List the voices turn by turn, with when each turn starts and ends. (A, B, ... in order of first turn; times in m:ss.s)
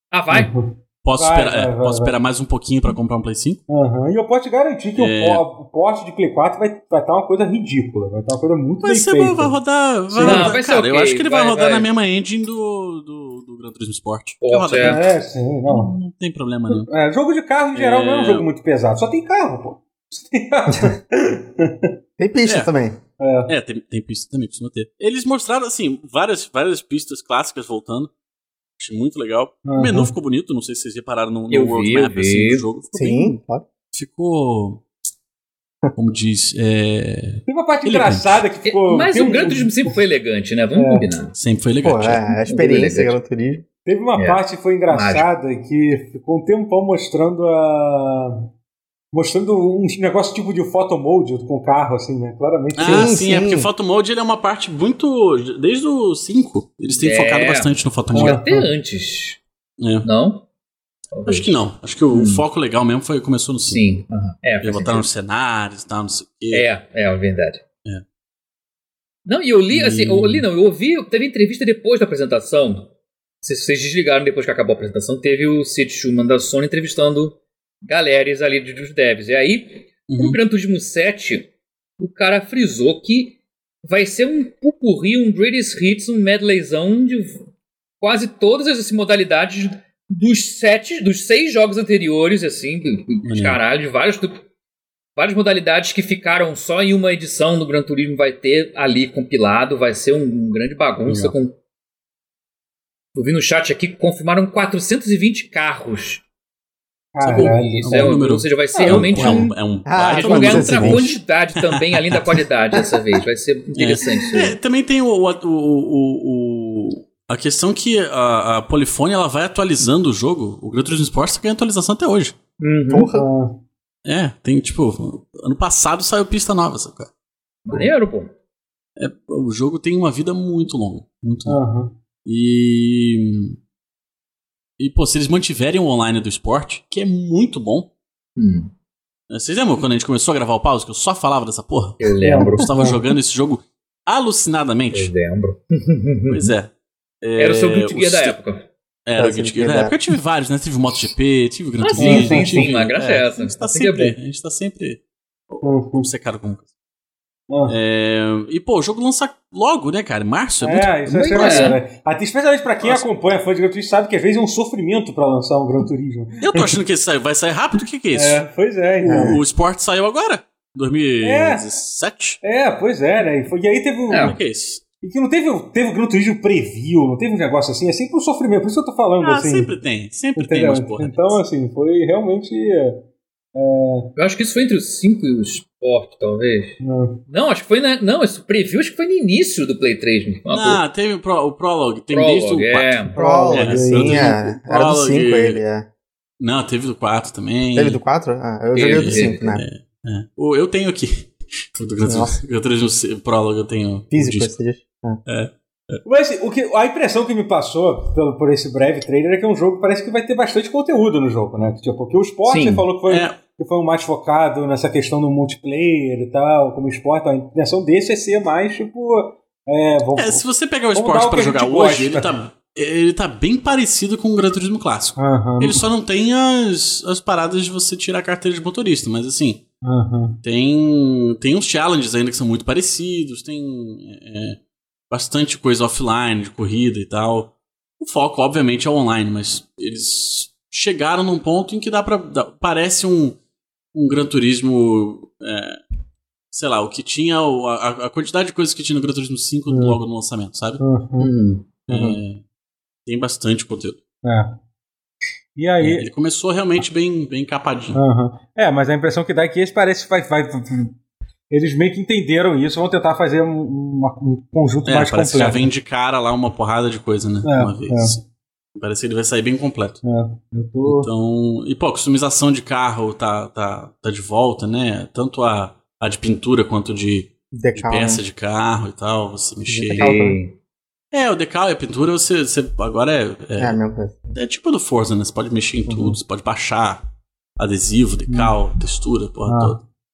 0:00.1-0:00.5 A
0:00.3-0:02.1 B
0:01.0-0:03.6 C
0:03.7-0:09.6 B
0:05.0-0:05.4 C
0:08.8-0:15.1 C
0:10.1-0:10.6 B
0:10.2-0:11.9 A
0:14.4-0:15.0 A
0:14.8-0:15.9 B
0:15.6-0:16.9 C
0:16.7-0:21.9 B
0:17.7-0:18.5 C
0:22.2-0:23.0 D
0:22.4-0:22.7 C
0:23.2-0:23.5 B
0:23.5-0:28.1 C
0:28.8-0:33.4 C
0:29.6-0:30.1 B
0:31.5-0:32.6 A
0:32.9-0:33.6 D
0:33.9-0:34.8 C
0:35.9-0:38.4 C
0:37.4-0:39.7 B
0:38.6-0:41.3 A
0:40.8-0:41.1 B
0:41.4-0:42.2 C
0:41.8-0:43.6 D
0:42.5-0:43.2 A
0:43.8-0:48.4 B
0:44.1-0:45.3 A
0:49.1-0:53.2 B
0:52.7-0:58.4 C
0:52.8-0:53.7 D
0:57.0-0:59.4 A
0:58.1-0:58.7 B
0:59.8-1:00.0 C
1:00.0-1:00.4 A
1:01.1-1:01.5 A
1:01.3-1:03.8 C
1:02.1-1:02.4 A
1:03.6-1:05.0 A
1:04.6-1:06.6 C
1:06.5-1:07.6 A
1:09.2-1:12.9 A
1:09.8-1:10.4 B
1:13.4-1:21.5 A
1:20.1-1:20.4 C
1:22.0-1:27.5 A
1:28.0-1:34.4 A
1:33.2-1:33.6 C
1:35.2-1:41.6 A
1:41.0-1:41.3 C
1:43.1-1:46.2 A
1:47.1-1:48.2 B
1:47.2-1:52.4 C
1:47.2-1:49.6 A
1:48.9-1:49.5 B
1:49.2-1:51.1 D
1:50.1-1:54.6 A
1:53.8-2:02.4 C
2:02.6-2:03.1 A
2:02.9-2:03.3 D
2:03.1-2:03.6 B
2:04.0-2:07.1 C
2:07.6-2:08.3 A
2:09.0-2:11.6 C
2:11.4-2:11.9 B
2:12.2-2:13.6 C
2:14.8-2:17.9 C
2:18.4-2:18.7 A
2:19.3-2:25.1 C
2:22.0-2:22.7 A
2:22.2-2:23.0 B
2:24.9-2:26.5 A
2:26.3-2:26.7 C
2:27.2-2:28.4 C
2:27.4-2:28.6 A
2:29.0-2:36.7 C
2:29.2-2:30.0 D
2:31.8-2:34.2 A
2:32.0-2:32.7 B
2:35.6-2:36.1 B
2:37.5-2:37.8 B
2:37.6-2:41.8 C
2:40.6-2:46.8 B
2:41.3-2:41.8 A
2:42.8-2:43.1 C
2:46.4-2:48.4 C
2:48.1-2:49.4 B
2:49.0-2:49.4 D
2:49.1-2:52.4 C
2:51.2-2:51.6 B
2:52.4-2:54.4 B
2:54.1-2:54.4 A
2:54.2-2:54.8 C
2:55.0-2:59.7 B
2:59.2-3:01.4 C
3:00.4-3:04.1 B
3:04.2-3:06.8 A
3:06.8-3:07.2 B
3:07.3-3:10.8 A
3:10.5-3:15.6 C
3:12.1-3:13.1 A
3:13.1-3:14.4 B
3:13.2-3:15.9 D
3:16.4-3:18.0 C
3:17.7-3:19.6 D
3:18.7-3:19.4 A
3:18.8-3:24.6 C
3:22.0-3:22.4 D
3:24.1-3:25.2 D
3:25.2-3:26.0 C
3:26.0-3:42.3 B
3:32.5-3:32.8 A
3:33.0-3:33.4 C
3:40.1-3:49.6 C
3:45.2-3:45.8 B
3:49.8-3:50.4 B
3:50.4-3:54.6 C
3:55.1-4:03.4 C
4:03.9-4:05.8 C
4:06.5-4:10.8 C
4:09.7-4:10.0 B
4:10.8-4:11.3 B
4:11.2-4:11.7 A
4:11.9-4:12.4 C
4:11.9-4:12.2 D
4:13.0-4:14.0 C
4:14.2-4:14.6 B
4:15.6-4:16.0 B
4:15.8-4:18.0 C
4:17.9-4:21.0 B
4:21.5-4:25.7 B
4:24.8-4:28.2 C
4:27.4-4:28.2 B
4:28.7-4:30.0 C
4:30.0-4:31.1 B
4:30.8-4:40.2 C
4:37.5-4:38.2 D
4:39.7-4:40.4 D
4:39.9-4:40.5 A
4:41.1-4:43.8 C
4:43.6-4:44.3 D
4:44.3-4:47.0 C
4:47.6-4:49.8 C
4:48.3-4:48.5 B
4:49.5-4:49.8 B